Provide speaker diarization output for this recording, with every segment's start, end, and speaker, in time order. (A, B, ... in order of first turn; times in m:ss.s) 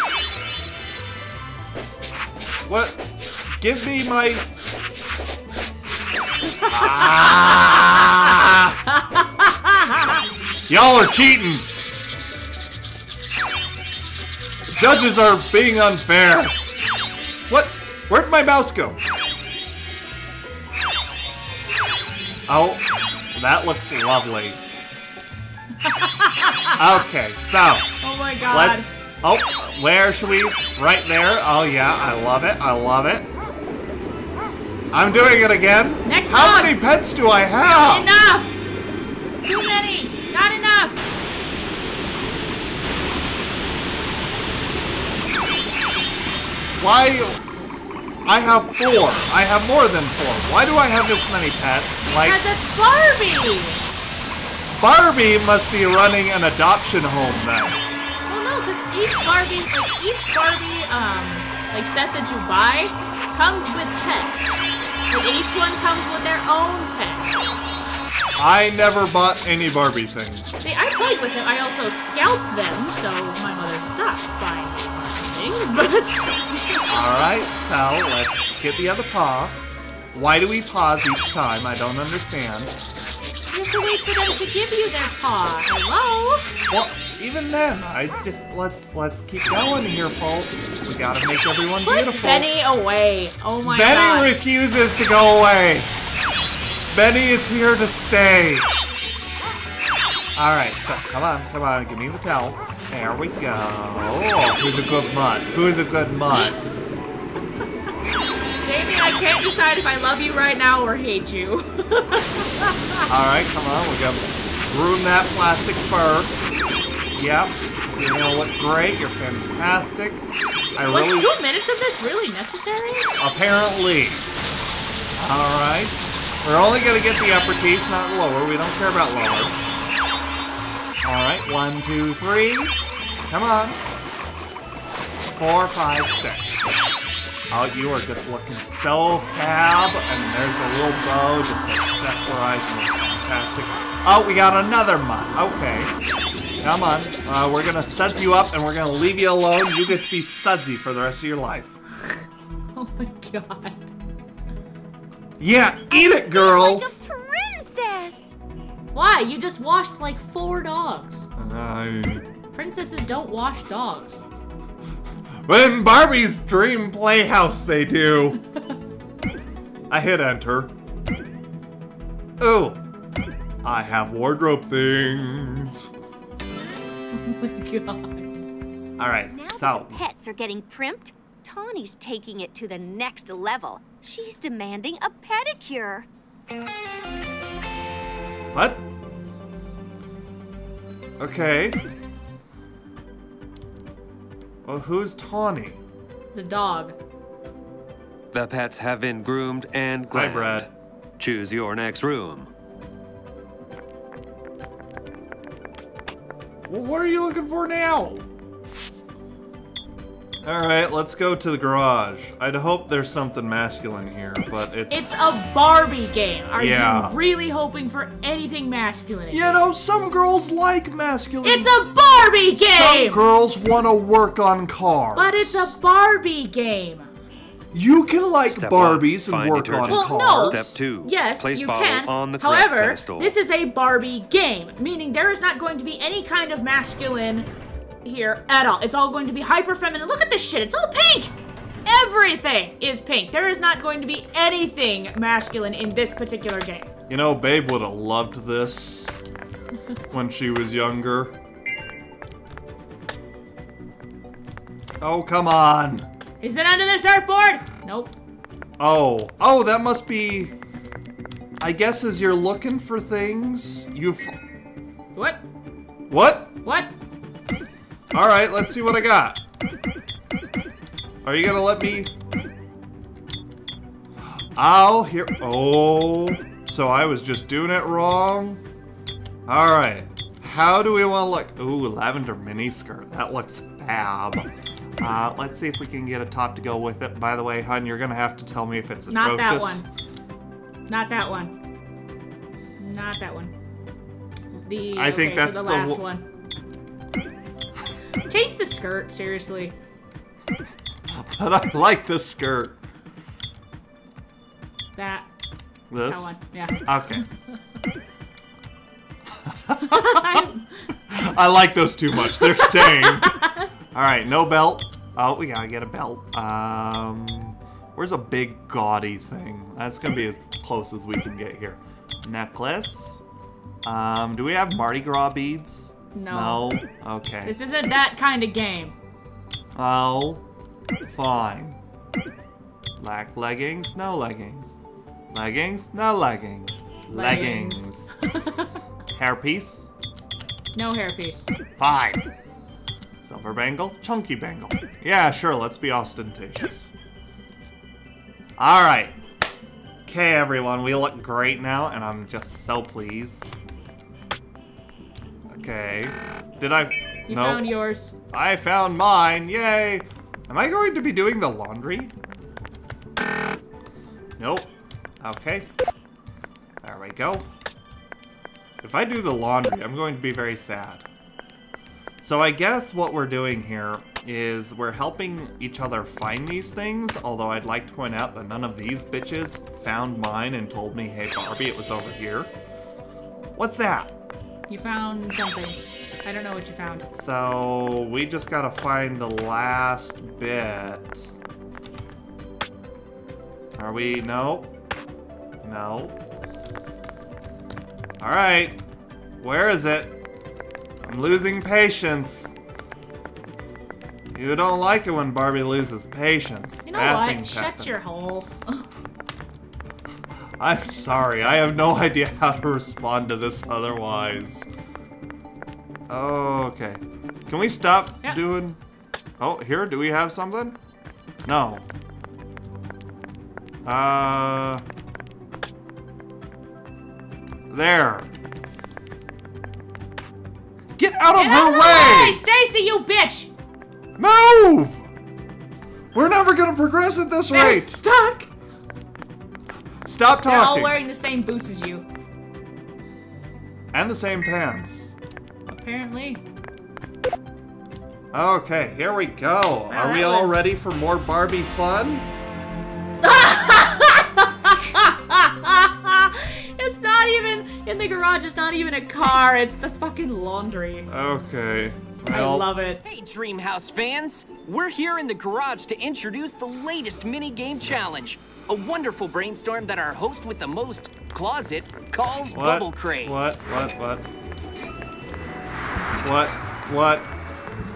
0:02.7-0:04.4 A
0:06.7-0:08.8 A
0:09.2-0:10.0 B
0:10.7-0:11.7 A
0:14.7-0:16.6 A
0:17.5-0:19.0 A
0:22.5-0:24.6 A
0:25.8-0:26.7 B
0:26.8-0:27.9 A
0:28.0-0:28.9 B
0:28.5-0:33.3 A
0:34.9-0:38.1 A
0:36.0-0:36.8 B
0:37.7-0:38.6 B
0:39.4-0:41.0 B
0:46.8-0:47.4 A
0:48.2-0:52.4 A
0:52.0-0:53.8 B
0:54.8-0:57.8 A
0:58.3-1:07.4 B
1:08.4-1:10.7 A
1:10.6-1:17.0 B
1:16.9-1:19.6 A
1:20.1-1:22.8 A
1:23.5-1:26.5 B
1:26.7-1:32.5 A
1:31.8-1:34.4 B
1:33.6-1:35.9 A
1:36.9-1:38.7 A
1:40.4-1:46.6 A
1:48.6-1:53.0 B
1:53.1-1:56.3 A
1:57.2-2:01.3 A
2:00.9-2:03.1 B
2:03.2-2:04.3 A
2:05.2-2:09.6 A
2:11.0-2:12.8 A
2:13.3-2:13.8 A
2:15.4-2:16.7 A
2:17.5-2:26.0 A
2:26.6-2:31.8 A
2:32.8-2:33.9 B
2:35.4-2:37.0 A
2:35.9-2:38.3 C
2:38.9-2:41.3 B
2:41.4-2:42.3 A
2:42.5-2:44.2 B
2:45.5-2:48.4 A
2:49.9-2:50.7 A
2:52.4-2:52.8 A
2:53.6-2:55.9 A
2:57.1-2:58.4 B
2:59.0-3:00.0 A
2:59.3-3:06.1 C
3:08.5-3:08.8 A
3:11.2-3:11.8 A
3:14.7-3:15.8 A
3:16.3-3:17.0 B
3:18.3-3:22.5 D
3:20.1-3:20.7 A
3:26.7-3:28.2 A
3:30.4-3:35.0 A
3:34.9-3:39.6 B
3:36.6-3:37.2 A
3:39.3-3:41.8 A
3:41.4-3:43.2 B
3:42.6-3:45.8 A
3:45.2-3:47.1 B
3:47.7-3:50.8 A
3:48.5-3:53.4 D
3:49.9-3:57.5 B
3:58.0-4:01.3 B
4:01.9-4:06.9 B
4:07.1-4:09.2 A
4:10.1-4:11.4 A
4:15.0-4:16.1 A
4:16.4-4:18.2 B
4:18.8-4:20.6 A
4:21.6-4:24.4 A
4:25.2-4:25.4 B
4:26.1-4:26.5 A
4:26.6-4:26.9 B
4:28.1-4:29.4 A
4:31.2-4:32.1 A
4:34.6-4:38.6 A
4:39.5-4:49.8 A
4:49.1-4:49.8 B
4:50.9-4:51.6 B
4:52.8-4:53.5 B
4:54.6-4:56.2 B
4:55.0-4:56.0 A
4:58.3-4:59.8 B
5:01.1-5:02.8 A
5:05.0-5:05.3 B
5:05.9-5:07.2 A
5:06.0-5:07.0 B
5:09.4-5:10.4 A
5:09.9-5:10.6 B
5:11.1-5:23.2 A
5:12.4-5:13.6 B
5:23.8-5:27.6 A
5:26.2-5:26.7 B
5:27.4-5:29.0 B
5:29.8-5:30.4 A
5:31.1-5:31.8 A
5:33.0-5:34.8 A
5:35.3-5:38.1 A
5:37.1-5:38.6 B
5:39.2-5:39.9 A
5:40.7-5:41.5 B
5:41.8-5:42.2 A
5:43.2-5:46.9 A
5:48.6-5:49.2 A
5:50.1-5:53.5 A
5:55.5-5:57.8 A
5:57.3-5:58.1 B
5:58.3-6:02.1 A
6:04.4-6:05.7 A
6:06.8-6:07.5 A
6:08.8-6:11.1 A
6:12.2-6:22.5 A
6:23.6-6:24.1 A
6:24.7-6:27.0 B
6:27.1-6:31.3 A
6:33.8-6:34.7 A
6:35.6-6:36.2 A
6:38.2-6:38.8 A
6:39.4-6:40.2 A
6:41.0-6:42.5 A
6:44.3-6:47.9 A
6:46.8-6:48.8 B
6:50.6-6:54.7 A
6:56.1-6:58.8 A
6:59.4-7:00.8 A
7:01.4-7:01.9 A
7:03.8-7:04.8 A
7:07.7-7:08.3 A
7:11.0-7:12.4 A
7:11.3-7:13.5 B
7:14.2-7:15.0 A
7:16.1-7:18.0 A
7:17.5-7:18.5 B
7:20.0-7:21.0 A
7:20.4-7:22.1 B
7:23.9-7:25.2 A
7:25.7-7:26.4 B
7:28.3-7:32.3 A
7:29.9-7:30.8 B
7:33.2-7:41.1 B
7:41.1-7:42.7 A
7:42.3-7:43.0 B
7:43.0-7:53.6 E
7:52.5-7:54.3 A
7:56.2-7:57.3 A